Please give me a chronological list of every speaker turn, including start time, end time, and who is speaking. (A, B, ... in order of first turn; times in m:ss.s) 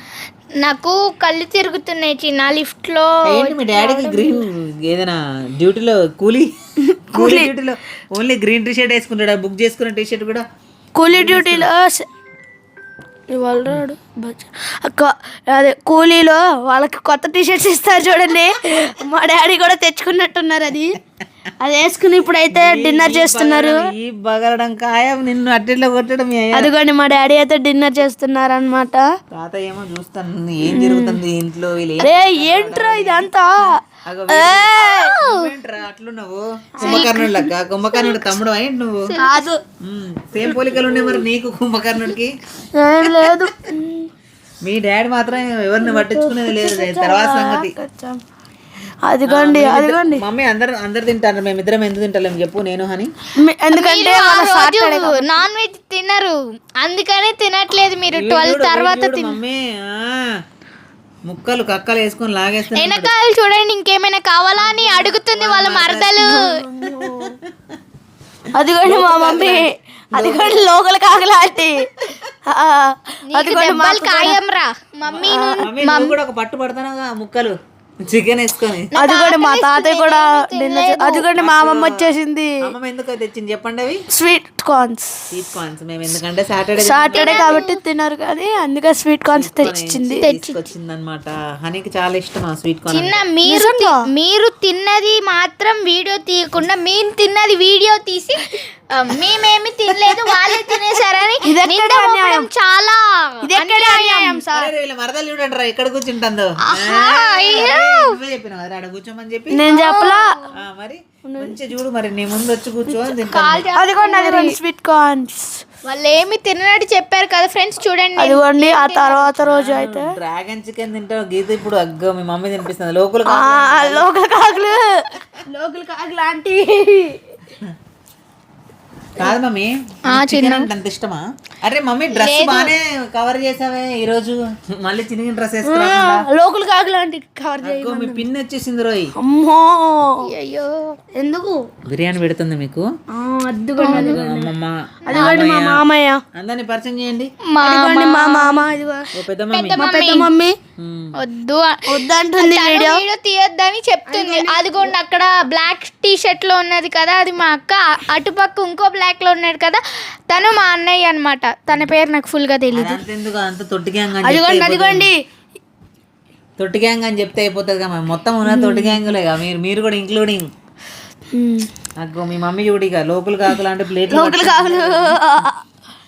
0:00.6-0:03.6 A
0:03.2-0:06.5 B
0:03.6-0:04.4 C
0:06.8-0:07.5 C
0:07.1-0:10.4 B
0:11.0-0:12.1 C
0:11.1-0:11.7 B
0:13.3-0:21.0 C
0:21.6-0:23.9 C
0:22.5-0:26.7 B
0:26.5-0:29.1 C
0:29.3-0:39.1 B
0:30.6-0:31.2 C
0:32.0-0:35.2 C
0:34.9-0:35.5 A
0:36.8-0:37.3 C
0:36.8-0:37.2 A
0:39.1-0:39.5 A
0:39.2-0:39.6 C
0:39.8-0:42.4 B
0:40.7-0:41.2 C
0:42.8-0:44.1 C
0:43.0-0:43.5 B
0:44.6-0:47.7 B
0:45.8-0:48.2 C
0:49.0-0:50.2 C
0:49.2-0:53.1 B
0:53.4-0:55.4 C
0:53.7-0:59.4 A
0:58.1-1:00.4 B
1:01.3-1:03.1 B
1:02.7-1:06.4 A
1:04.6-1:07.8 B
1:06.2-1:07.4 C
1:08.5-1:14.4 C
1:08.8-1:10.6 B
1:13.3-1:16.1 A
1:15.1-1:18.9 B
1:15.2-1:15.7 C
1:18.9-1:21.2 A
1:18.9-1:22.7 C
1:21.4-1:24.0 B
1:24.1-1:25.3 C
1:25.3-1:27.5 B
1:26.8-1:30.2 C
1:27.1-1:27.8 A
1:29.3-1:33.2 B
1:30.2-1:30.5 A
1:32.9-1:44.4 A
1:33.4-1:34.0 C
1:39.9-1:40.8 C
1:41.4-1:42.5 C
1:43.4-1:44.7 C
1:44.5-1:49.7 B
1:46.7-1:48.1 A
1:49.5-1:50.4 C
1:49.7-1:50.4 A
1:50.5-1:53.6 B
1:51.2-1:51.6 C
1:52.9-1:54.6 A
1:53.7-1:55.6 C
1:55.8-1:59.3 A
1:58.2-2:00.1 C
1:59.4-2:04.1 B
2:03.2-2:07.4 C
2:09.2-2:16.2 B
2:10.1-2:10.7 A
2:12.1-2:12.7 A
2:15.6-2:18.3 C
2:17.6-2:19.1 B
2:19.2-2:20.2 C
2:20.2-2:21.0 A
2:21.2-2:21.6 C
2:21.9-2:22.9 B
2:23.1-2:24.5 C
2:23.8-2:24.2 A
2:23.8-2:25.8 B
2:25.1-2:25.4 A
2:25.1-2:26.2 C
2:26.3-2:27.3 B
2:27.5-2:28.6 A
2:27.6-2:29.1 C
2:29.1-2:29.8 B
2:29.5-2:30.3 A
2:29.7-2:30.6 C
2:30.8-2:31.1 B
2:31.2-2:43.0 A
2:31.9-2:33.0 C
2:34.1-2:34.9 C
2:42.7-2:45.1 B
2:44.2-2:45.2 C
2:46.6-2:50.5 B
2:48.4-2:49.1 C
2:51.3-2:51.7 C
2:52.0-2:55.2 B
2:54.1-2:55.6 C